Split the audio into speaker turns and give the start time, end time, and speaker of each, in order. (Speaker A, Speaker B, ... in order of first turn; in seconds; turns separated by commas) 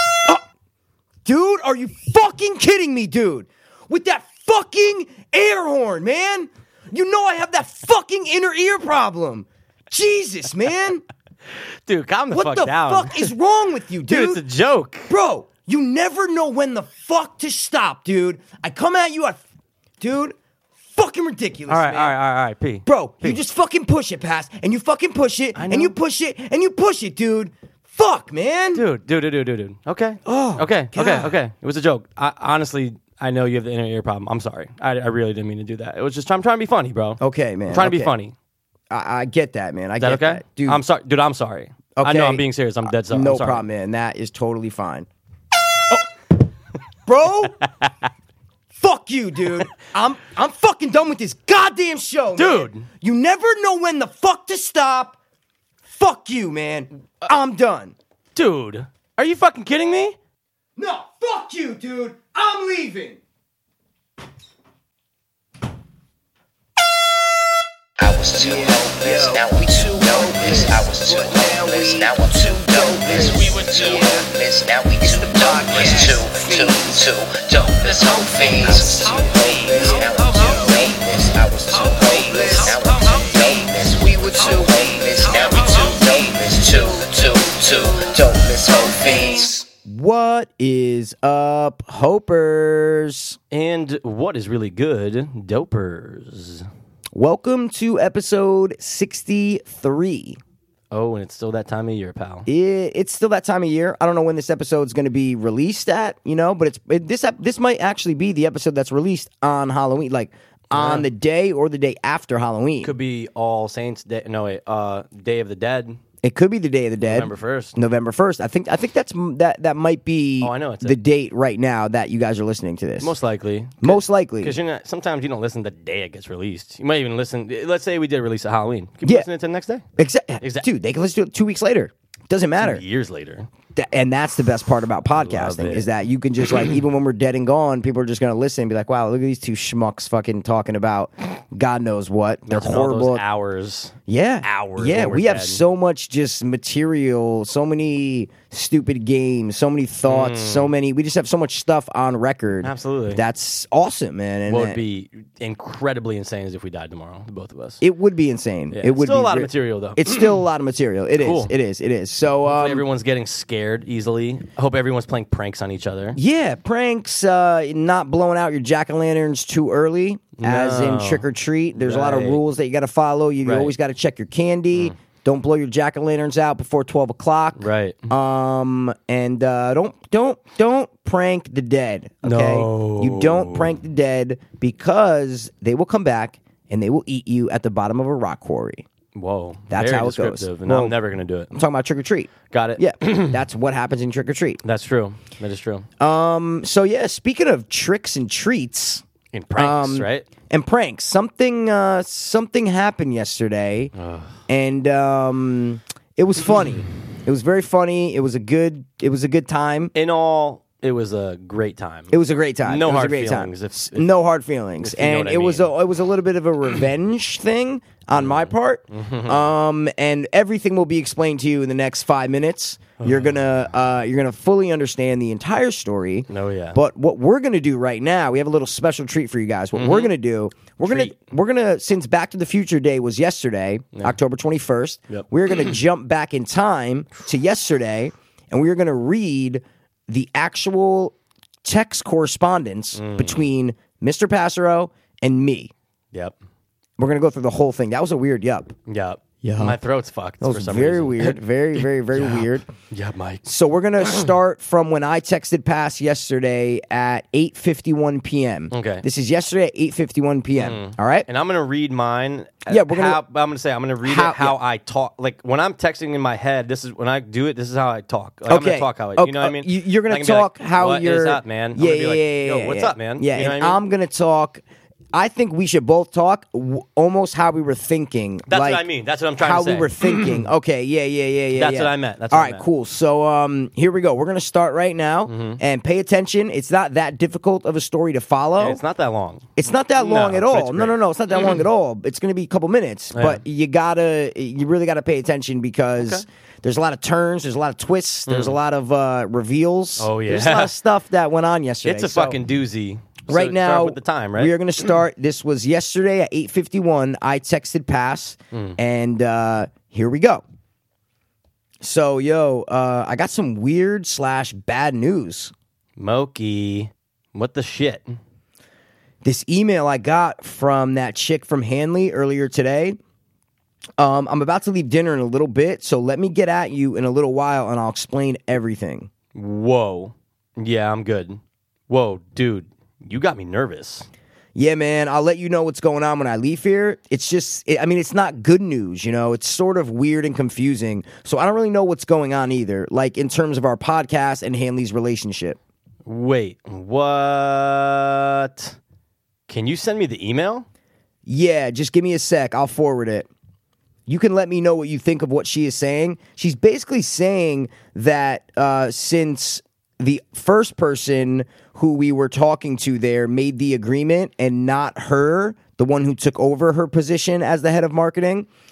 Speaker A: 1.2-11.0, Speaker B: 11.8-13.3, Speaker A: 12.3-14.4, Speaker B: 14.1-15.1, Speaker A: 15.1-19.4, Speaker A: 20.0-20.4, Speaker A: 20.9-22.1, Speaker B: 21.7-23.4, Speaker A: 22.9-28.9, Speaker B: 25.5-25.9, Speaker B: 28.7-38.3, Speaker A: 30.2-31.4, Speaker A: 37.2-38.1, Speaker A: 38.9-40.8, Speaker B: 40.0-43.6, Speaker A: 42.0-42.4, Speaker A: 43.1-45.1, Speaker A: 47.0-47.6, Speaker A: 48.8-55.2, Speaker B: 52.4-52.9, Speaker A: 55.9-57.9, Speaker B: 58.3-60.1, Speaker A: 60.8-63.2, Speaker C: 68.0-89.6, Speaker A: 68.4-74.3, Speaker B: 73.2-73.7, Speaker A: 75.0-76.8, Speaker A: 78.1-82.7, Speaker B: 79.2-80.8, Speaker B: 81.8-83.4, Speaker A: 84.1-84.4, Speaker B: 85.5-86.0, Speaker A: 88.8-93.4, Speaker B: 93.5-96.7, Speaker A: 97.1-100.4, Speaker B: 100.9-102.5, Speaker A: 102.5-112.9, Speaker B: 110.7-111.1, Speaker B: 112.8-116.0, Speaker A: 116.2-123.1, Speaker B: 117.0-117.7, Speaker B: 120.4-121.0, Speaker B: 123.0-129.8, Speaker A: 123.8-124.5, Speaker A: 130.0-132.8, Speaker B: 130.4-130.7, Speaker B: 132.6-133.5, Speaker A: 133.7-143.2, Speaker B: 135.2-135.9, Speaker B: 142.4-145.6, Speaker A: 144.1-154.8, Speaker B: 150.1-150.7, Speaker B: 152.6-153.2, Speaker B: 154.5-157.8, Speaker A: 157.8-162.8, Speaker B: 158.7-160.4, Speaker B: 161.2-161.5, Speaker B: 162.4-166.2, Speaker A: 166.1-188.8, Speaker B: 170.4-172.4, Speaker B: 173.4-173.7, Speaker B: 177.6-178.0, Speaker B: 182.2-183.7, Speaker B: 189.1-191.5, Speaker A: 189.7-190.9, Speaker A: 191.5-194.6, Speaker B: 192.5-193.4, Speaker B: 194.6-195.8, Speaker A: 196.0-199.0, Speaker B: 199.3-200.3, Speaker A: 199.6-203.9, Speaker B: 203.9-204.3, Speaker A: 204.5-209.9, Speaker B: 209.9-214.1, Speaker A: 212.1-245.7, Speaker B: 214.8-215.7, Speaker B: 218.1-219.5, Speaker B: 223.0-223.4, Speaker B: 226.3-226.8, Speaker B: 229.7-230.1, Speaker B: 230.8-231.2, Speaker B: 235.1-235.7, Speaker B: 242.9-243.5, Speaker A: 247.0-248.7, Speaker B: 248.9-253.4, Speaker A: 249.4-249.8, Speaker A: 250.4-252.7, Speaker A: 253.4-261.3, Speaker B: 254.0-254.3, Speaker B: 258.7-259.0, Speaker B: 260.5-273.8, Speaker A: 262.7-263.2, Speaker A: 264.0-264.6, Speaker A: 268.5-274.6, Speaker A: 275.1-278.8, Speaker B: 278.5-280.5, Speaker A: 279.4-288.8, Speaker B: 281.5-282.6, Speaker B: 285.3-285.6, Speaker B: 288.6-291.6, Speaker A: 289.6-302.4, Speaker B: 293.1-293.4, Speaker B: 295.9-296.2, Speaker B: 298.3-298.6, Speaker B: 300.0-300.7, Speaker B: 301.8-304.5, Speaker A: 303.3-310.4, Speaker A: 311.8-315.5, Speaker B: 316.0-318.2, Speaker A: 319.2-323.0, Speaker A: 324.0-329.1, Speaker B: 329.3-334.1, Speaker A: 334.6-345.6, Speaker B: 346.0-348.8, Speaker B: 349.5-350.6, Speaker A: 351.2-353.3, Speaker A: 354.1-368.5